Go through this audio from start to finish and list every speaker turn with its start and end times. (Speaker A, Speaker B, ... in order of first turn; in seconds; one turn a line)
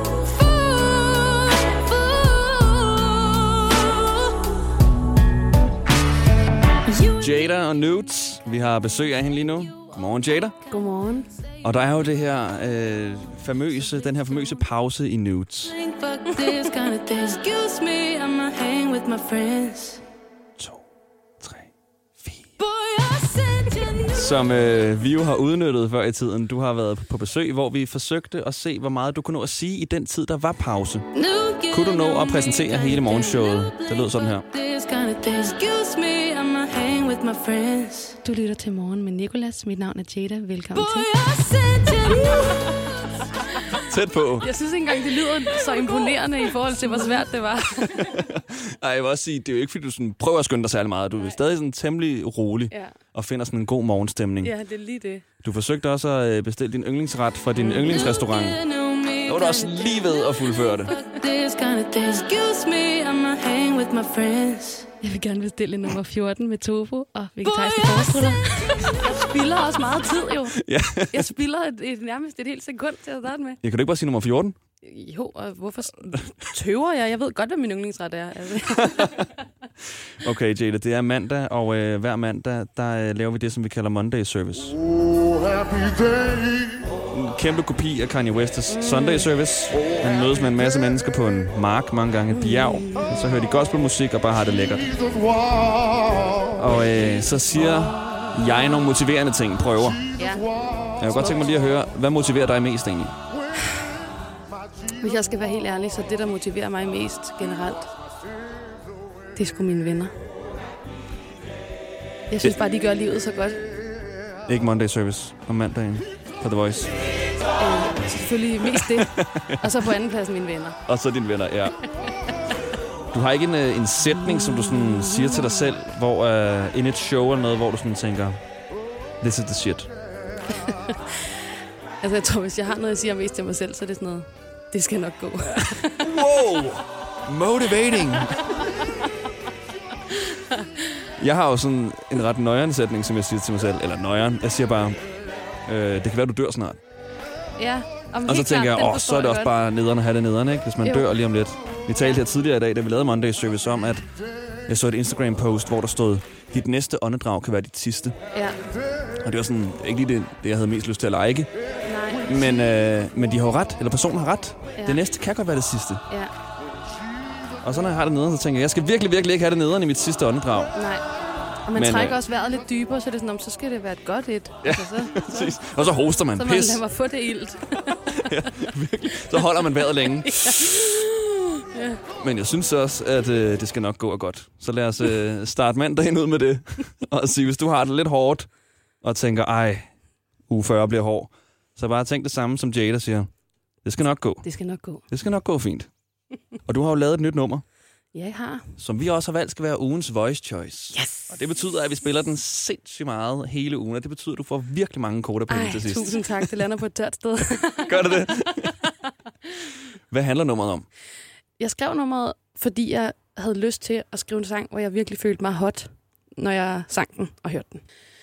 Speaker A: 0.2-4.5
Speaker A: 6.9-7.5
Speaker B: 7.2-10.6
Speaker C: 10.7-11.3
Speaker B: 11.6-15.8
Speaker A: 15.7-20.0
Speaker B: 20.6-20.9
Speaker B: 21.4-22.5
Speaker A: 22.6-24.4
Speaker B: 24.1-31.1
Speaker A: 31.1-38.2
Speaker B: 31.7-34.5
Speaker C: 38.2-41.1
Speaker A: 40.8-43.1
Speaker B: 43.9-44.5
Speaker C: 44.4-48.1
Speaker B: 47.8-54.5
Speaker C: 54.4-55.3
Speaker B: 55.4-58.6
Speaker A: 57.9-64.9
Speaker B: 59.2-61.0
Speaker C: 65.0-70.6
Speaker A: 67.4-69.0
Speaker B: 70.6-71.3
Speaker C: 71.1-73.6
Speaker B: 73.6-74.6
Speaker C: 74.8-79.3
Speaker B: 78.8-79.2
Speaker B: 80.2-84.8
Speaker B: 87.1-95.1
Speaker C: 88.7-89.3
Speaker C: 92.3-93.1
Speaker B: 96.5-100.0
Speaker C: 100.2-100.5
Speaker B: 101.0-103.2
Speaker C: 101.1-101.5
Speaker C: 105.0-107.9
Speaker C: 109.3-110.1
Speaker C: 112.3-113.6
Speaker B: 114.5-116.9
Speaker C: 117.6-120.8
Speaker B: 118.7-119.7
Speaker B: 120.9-121.8
Speaker B: 123.1-128.4
Speaker B: 129.2-129.9
Speaker C: 130.5-131.3
Speaker C: 132.0-136.1
Speaker B: 136.0-138.6
Speaker C: 140.2-140.7
Speaker B: 141.2-145.0
Speaker B: 145.7-146.8
Speaker C: 147.6-149.5
Speaker B: 148.3-154.1
Speaker C: 150.8-151.1
Speaker B: 154.7-158.2
Speaker B: 159.2-161.5
Speaker C: 161.9-162.4
Speaker B: 162.2-166.0
Speaker C: 164.8-165.0
Speaker B: 167.6-170.7
Speaker C: 170.7-171.1
Speaker C: 171.7-175.4
Speaker B: 171.8-172.2
Speaker B: 174.6-176.8
Speaker C: 176.4-178.2
Speaker B: 178.2-181.0
Speaker C: 179.9-181.0
Speaker C: 181.7-182.0
Speaker B: 182.2-188.5
Speaker B: 189.0-189.9
Speaker B: 190.5-193.3
Speaker B: 193.8-194.4
Speaker C: 194.4-195.0
Speaker B: 195.1-195.9
Speaker B: 196.7-197.6
Speaker C: 198.1-198.7
Speaker B: 198.8-206.5
Speaker C: 200.9-201.3
Speaker C: 205.5-208.2
Speaker B: 207.9-208.8
Speaker B: 210.1-210.9
Speaker C: 211.6-217.8